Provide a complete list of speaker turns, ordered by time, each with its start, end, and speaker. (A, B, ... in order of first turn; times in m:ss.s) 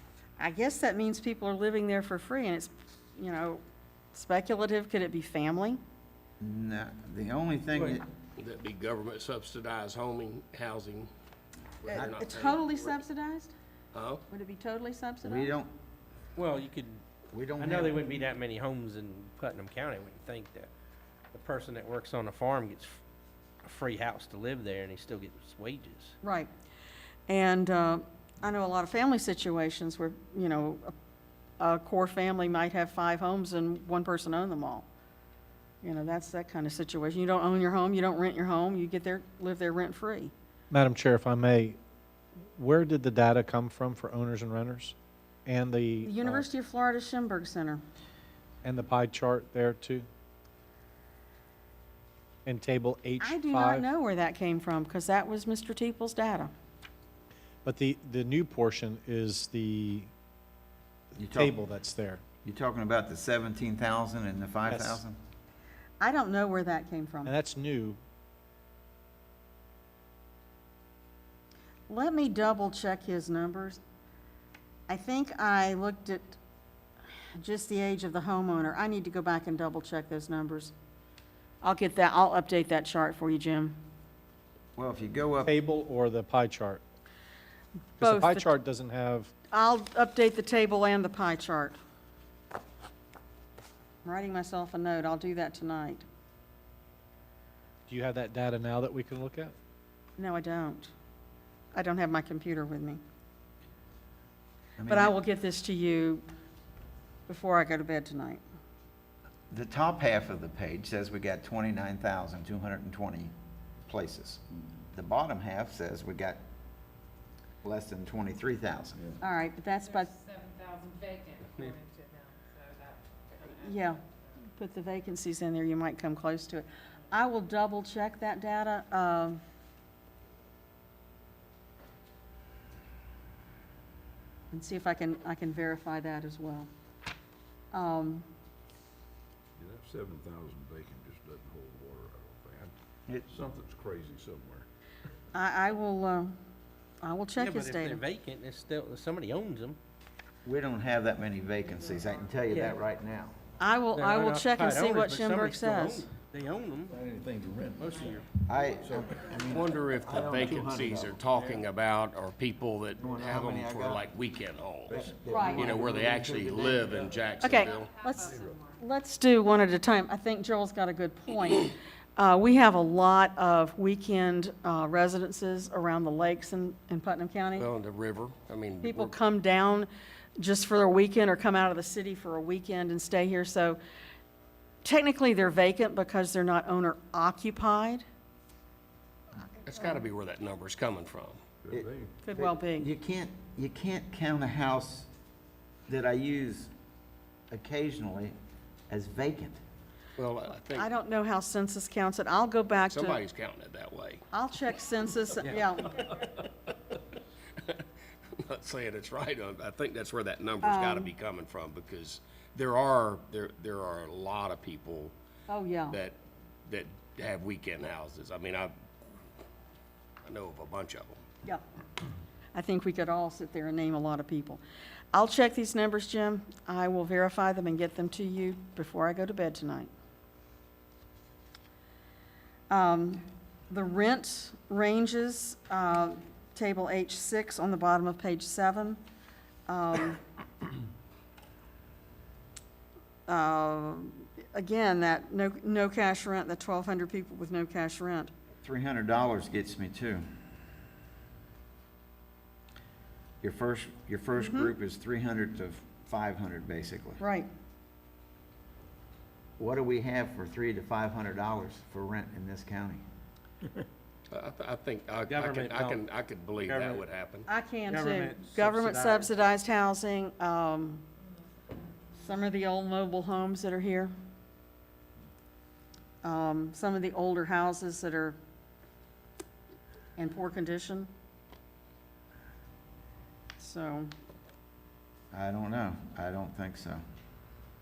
0:00.4-0:03.6 A
0:04.1-0:05.8 A
0:06.4-0:08.1 B
0:07.7-0:08.0 C
0:08.4-0:11.1 D
0:11.8-0:13.0 D
0:11.9-0:13.5 A
0:13.9-0:14.2 D
0:14.3-0:15.5 A
0:15.2-0:15.7 B
0:16.4-0:17.0 C
0:17.3-0:18.0 B
0:17.6-0:20.7 C
0:21.3-0:23.0 C
0:23.6-0:26.2 C
0:26.2-0:26.5 A
0:27.3-0:30.9 A
0:31.6-0:34.9 A
0:35.8-0:40.3 A
0:40.7-0:41.8 E
0:42.6-0:45.0 E
0:45.5-0:46.4 E
0:46.0-0:47.8 A
0:48.6-0:50.1 E
0:52.4-0:53.9 E
0:53.2-0:56.5 A
0:57.6-1:00.1 E
1:01.2-1:01.6 B
1:01.3-1:02.2 E
1:02.4-1:05.2 B
1:04.7-1:05.0 E
1:06.0-1:07.3 A
1:07.2-1:08.0 E
1:11.9-1:13.8 A
1:14.9-1:16.4 A
1:17.2-1:20.7 A
1:21.6-1:23.8 A
1:24.8-1:25.5 B
1:25.4-1:26.8 E
1:28.0-1:29.3 E
1:28.0-1:28.5 A
1:29.5-1:31.8 A
1:34.0-1:36.0 A
1:37.9-1:39.6 E
1:40.2-1:40.9 A
1:41.7-1:43.0 A
1:44.8-1:45.2 B
1:44.9-1:46.3 A
1:47.3-1:48.4 A
1:49.5-1:53.3 B
1:53.9-1:56.4 B
1:57.6-1:59.0 B
1:59.2-2:00.1 A
2:00.0-2:03.8 F
2:03.4-2:04.0 A
2:04.5-2:09.4 A
2:14.5-2:16.7 A
2:17.7-2:18.3 A
2:19.6-2:22.8 G
2:23.3-2:24.7 G
2:25.3-2:26.4 A
2:27.0-2:28.0 A
2:27.4-2:29.8 C
2:30.4-2:33.4 B
2:32.5-2:32.8 C
2:33.6-2:36.1 A
2:33.9-2:37.0 C
2:36.9-2:41.2 B
2:37.8-2:38.3 C
2:39.5-2:48.0 D
2:41.3-2:41.6 G
2:43.0-2:44.0 B
2:44.9-2:47.2 B
2:45.3-2:45.7 A
2:47.4-2:57.7 A
2:47.6-2:48.8 F
2:48.2-2:48.6 G
2:57.6-2:59.2 D
2:58.8-3:03.8 A
3:04.8-3:08.0 A
3:09.6-3:11.4 D
3:11.6-3:12.1 G
3:11.7-3:15.1 B
3:12.2-3:12.9 A
3:15.9-3:16.7 B
3:17.5-3:18.4 B
3:18.9-3:19.6 B
3:20.2-3:20.9 D
3:20.8-3:23.2 A
3:22.9-3:24.2 D
3:24.3-3:26.1 A
3:26.0-3:26.5 D
3:27.6-3:35.1 D
3:30.6-3:31.1 A
3:35.5-3:36.0 A
3:35.9-3:38.7 D
3:40.2-3:41.2 D
3:42.5-3:44.6 A
3:45.1-3:49.9 A
3:52.7-3:59.0 A
3:59.7-4:00.2 A
4:03.3-4:08.3 A
4:08.6-4:10.2 B
4:13.4-4:17.2 B
4:14.4-4:14.7 A
4:17.2-4:17.5 A
4:19.6-4:23.0 B
4:24.3-4:27.5 D
4:25.3-4:26.0 C
4:26.6-4:27.1 C
4:27.5-4:31.0 A
4:27.9-4:29.3 C
4:32.2-4:34.1 A
4:36.2-4:38.4 A
4:40.2-4:41.1 A
4:43.6-4:44.1 A
4:45.3-4:47.0 B